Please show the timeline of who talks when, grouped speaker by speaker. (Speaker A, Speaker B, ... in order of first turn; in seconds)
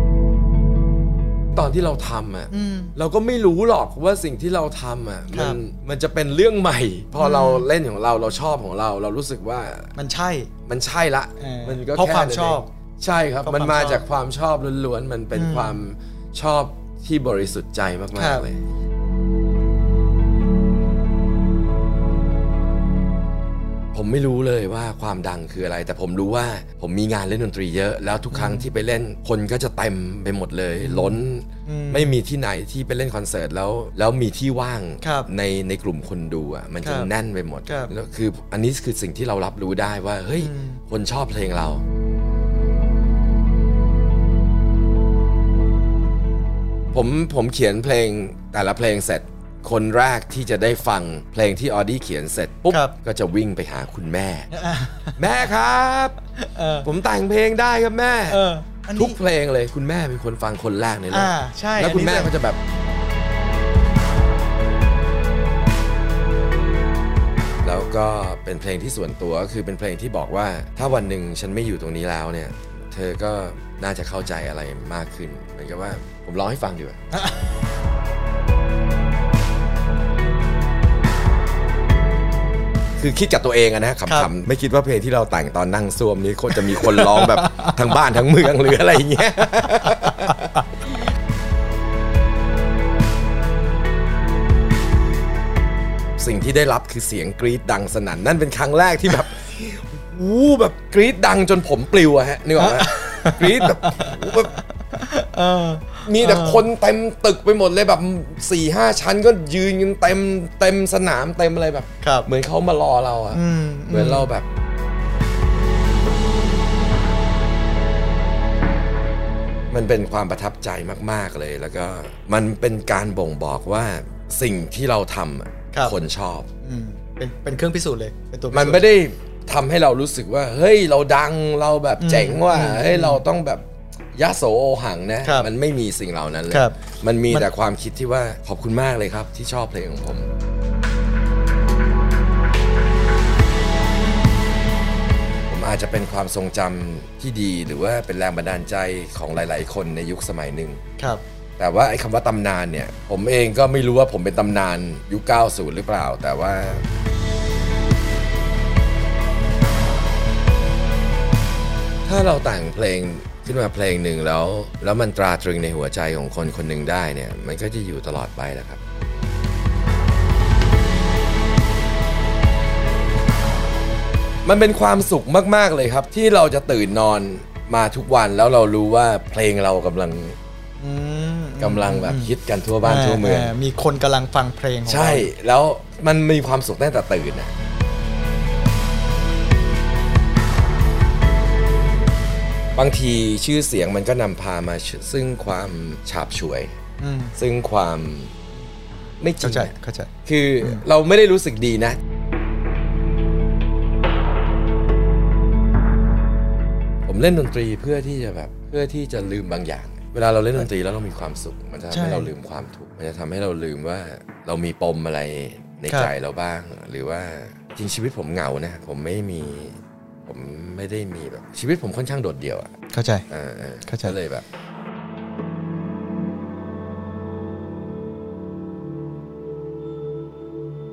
Speaker A: 1.5-9.9, 10.7-18.6, 23.9-41.8, 46.9-54.5, 55.2-56.2, 56.8-62.6, 67.6-77.0, 83.0-90.6, 96.2-104.5, 106.0-114.5, 119.7-126.5, 128.5-140.3, 145.5-150.8, 151.6-156.8, 162.1-168.8, 174.4-180.4, 181.6-183.5, 184.9-187.5, 192.8-196.7, 197.3-198.4, 199.2-199.7, 200.2-202.0, 207.1-222.7, 223.3-224.5
Speaker B: 2.5-2.9, 5.3-5.6, 7.2-7.7, 10.0-10.5, 11.4-12.7, 13.4-14.1, 15.3-15.8, 18.1-18.4, 28.3-28.7, 30.8-32.1, 35.0-35.3, 36.8-37.1, 37.7-37.9, 40.4-40.8, 52.7-52.9, 54.5-55.2, 56.4-56.9, 58.3-59.2, 61.1-62.3, 102.6-104.3, 104.9-106.7, 112.0-112.3, 113.3-114.3, 126.6-128.8, 132.0-133.2, 135.2-135.5, 136.5-136.8, 180.8-182.3, 182.8-185.3, 197.0-197.3, 199.4-200.1, 211.9-212.3, 222.9-223.3, 223.9-224.2